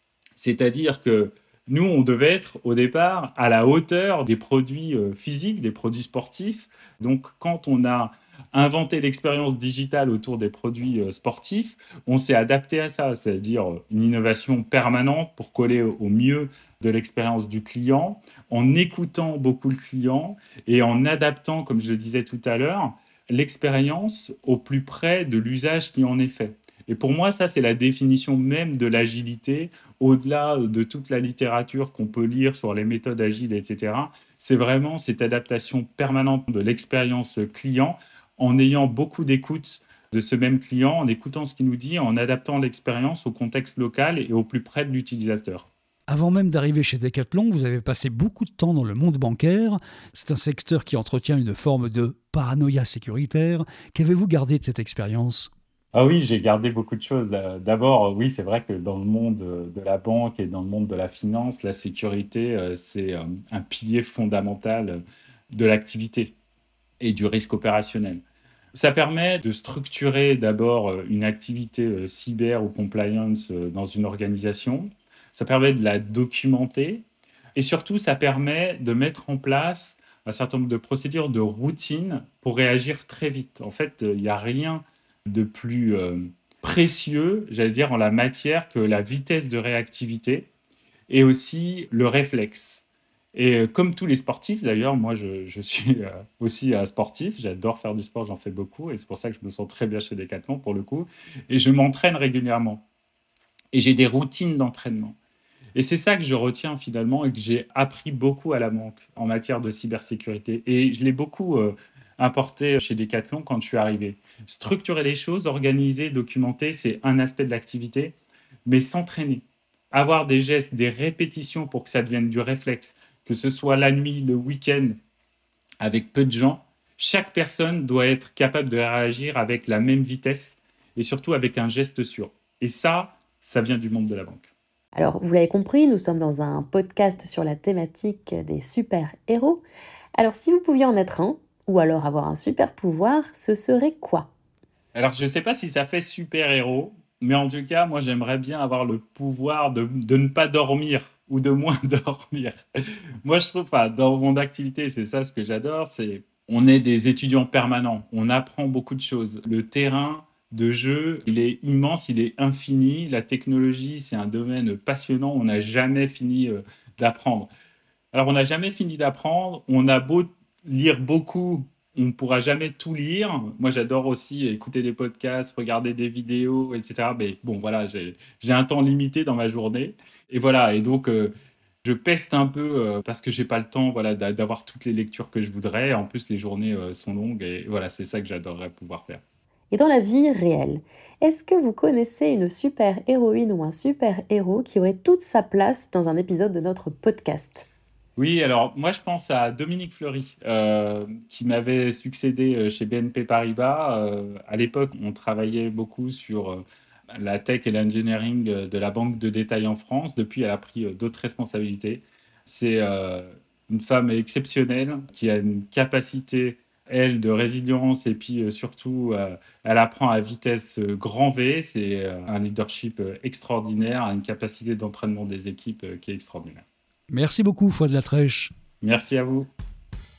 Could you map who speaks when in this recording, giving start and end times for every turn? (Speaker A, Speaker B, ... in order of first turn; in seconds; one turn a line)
Speaker A: 0.4-45.7
Speaker B: 46.1-55.5
Speaker A: 55.9-65.0
Speaker A: 65.5-66.3
Speaker A: 67.0-68.2
Speaker A: 68.7-77.0
Speaker A: 77.5-90.5
Speaker A: 91.1-92.8
Speaker A: 93.3-102.8
Speaker A: 103.7-105.2
Speaker A: 105.8-118.1
Speaker A: 118.7-125.0
Speaker A: 125.8-134.5
Speaker C: 134.9-139.6
Speaker C: 140.2-144.3
Speaker A: 144.9-152.6
Speaker A: 153.2-167.5
Speaker A: 168.1-181.3
Speaker A: 181.8-189.2
Speaker C: 189.7-197.7
Speaker A: 198.2-206.6
Speaker A: 207.2-226.6
Speaker B: 227.1-228.5
Speaker A: 228.8-229.5